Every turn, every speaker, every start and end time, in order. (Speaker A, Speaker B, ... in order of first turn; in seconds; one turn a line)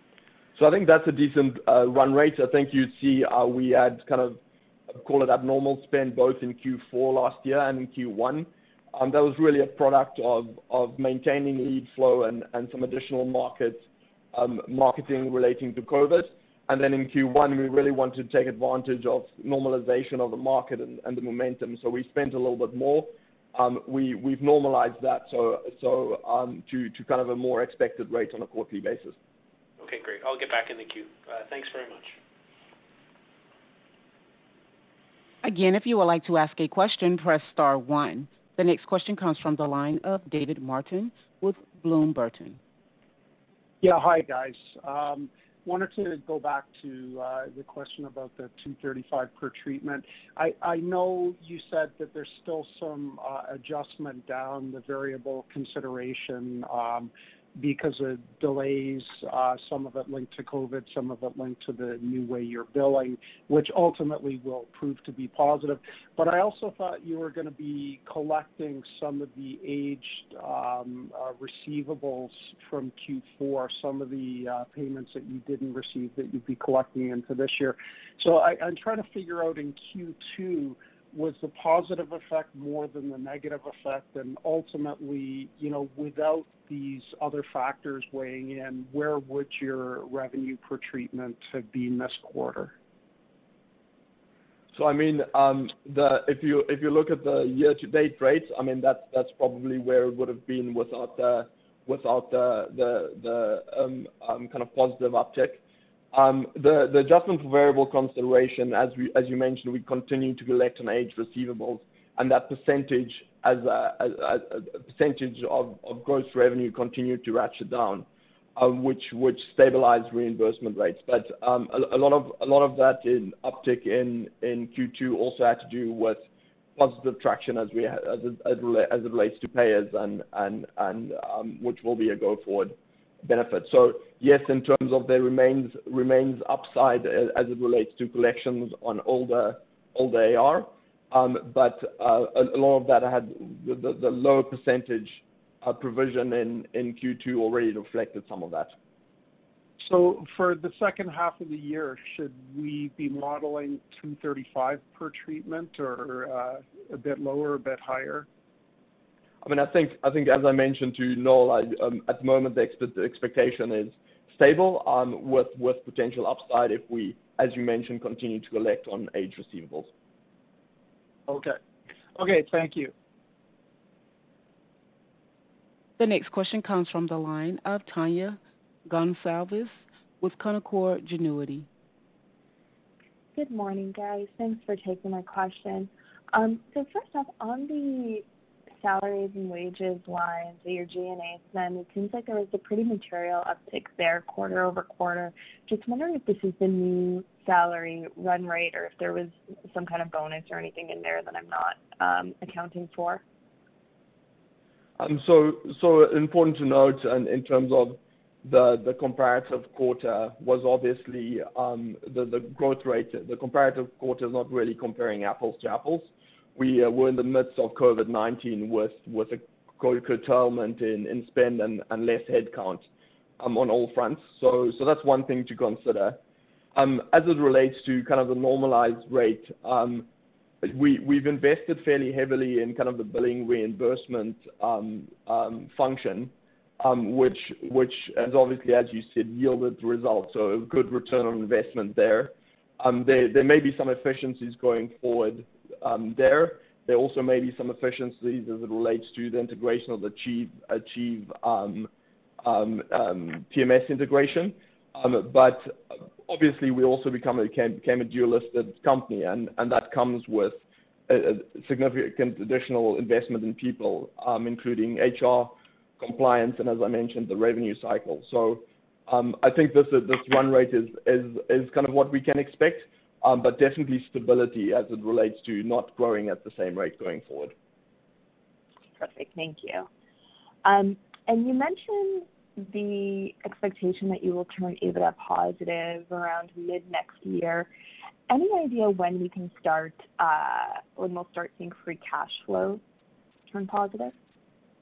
Speaker A: 0.6-29.1
Speaker B: 29.8-32.1
Speaker C: 35.4-42.6
Speaker D: 43.8-92.7
Speaker A: 94.7-105.6
Speaker A: 106.1-126.2
Speaker A: 126.8-148.7
Speaker D: 149.8-158.3
Speaker A: 159.4-169.9
Speaker D: 171.3-171.6
Speaker D: 172.1-172.9
Speaker C: 176.0-181.7
Speaker E: 183.3-188.2
Speaker E: 188.8-203.2
Speaker A: 205.0-222.8
Speaker A: 223.4-226.2
Speaker A: 226.7-230.1
Speaker A: 230.6-251.9
Speaker A: 252.4-277.5
Speaker E: 279.0-279.9
Speaker E: 280.6-287.7
Speaker E: 288.3-292.8
Speaker E: 293.5-294.1